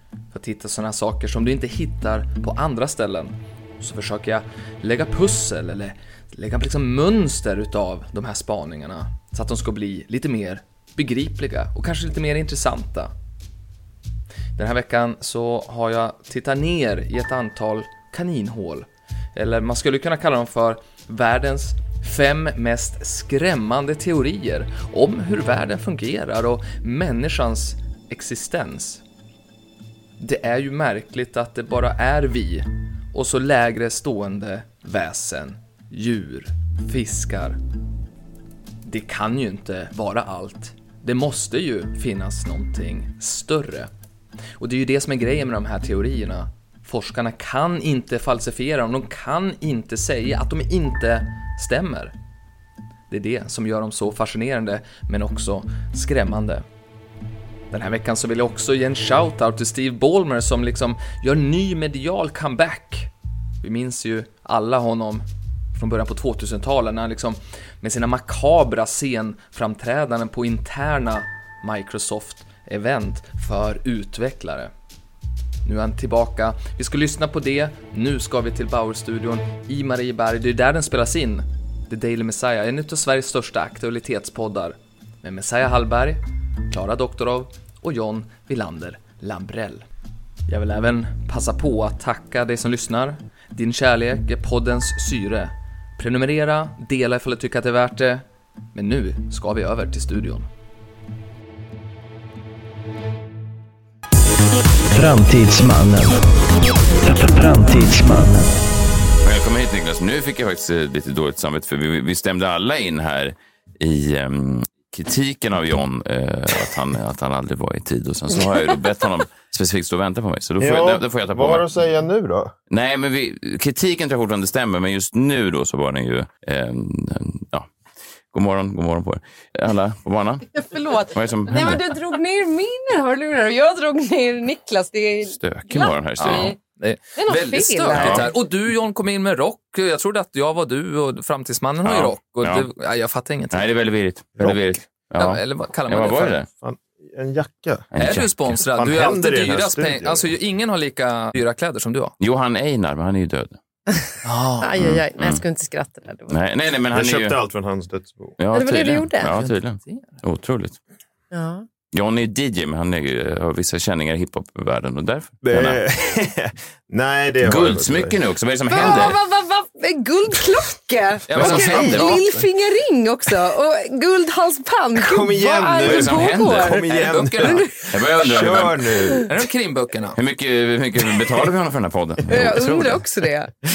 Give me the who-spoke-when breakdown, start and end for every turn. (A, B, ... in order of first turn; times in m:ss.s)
0:00.3-0:13.1 A
0:14.6-0:29.0 A
0:30.2-0:37.6 A
0:38.8-0:43.9 A
0:44.6-0:52.2 A
0:53.1-0:56.6 A
0:57.7-1:14.7 A
1:15.6-1:29.8 A
1:30.5-1:40.5 A
1:44.9-1:46.2 B
1:46.9-1:48.7 B
1:49.2-2:01.7 C
2:00.6-2:02.5 D
2:02.7-2:07.7 C
2:08.3-2:11.8 C
2:10.6-2:16.6 E
2:15.3-2:16.6 C
2:16.2-2:23.6 A
2:17.2-2:18.3 E
2:18.0-2:18.3 C
2:21.8-2:22.7 C
2:23.5-2:26.5 C
2:25.2-2:26.4 A
2:26.6-2:27.9 D
2:27.9-2:28.6 C
2:28.0-2:32.2 A
2:28.7-2:30.3 D
2:32.2-2:33.6 C
2:34.2-2:34.7 A
2:34.6-2:36.4 E
2:34.8-2:35.4 C
2:36.3-2:37.4 C
2:36.9-2:38.4 D
2:38.4-2:40.8 C
2:38.5-2:39.3 E
2:39.3-2:40.2 A
2:41.3-2:41.7 E
2:41.9-2:45.8 C
2:45.4-2:48.2 D
2:47.4-2:49.2 C
2:48.7-2:56.8 E
2:48.8-2:49.1 D
2:51.3-2:52.2 A
2:51.4-2:52.2 C
2:54.9-2:59.3 D
2:55.8-2:56.8 C
2:56.6-2:57.6 A
2:57.4-2:57.9 E
2:57.9-2:58.9 C
2:59.0-2:59.2 E
2:59.3-3:00.2 A
3:00.2-3:03.0 C
3:02.3-3:03.5 E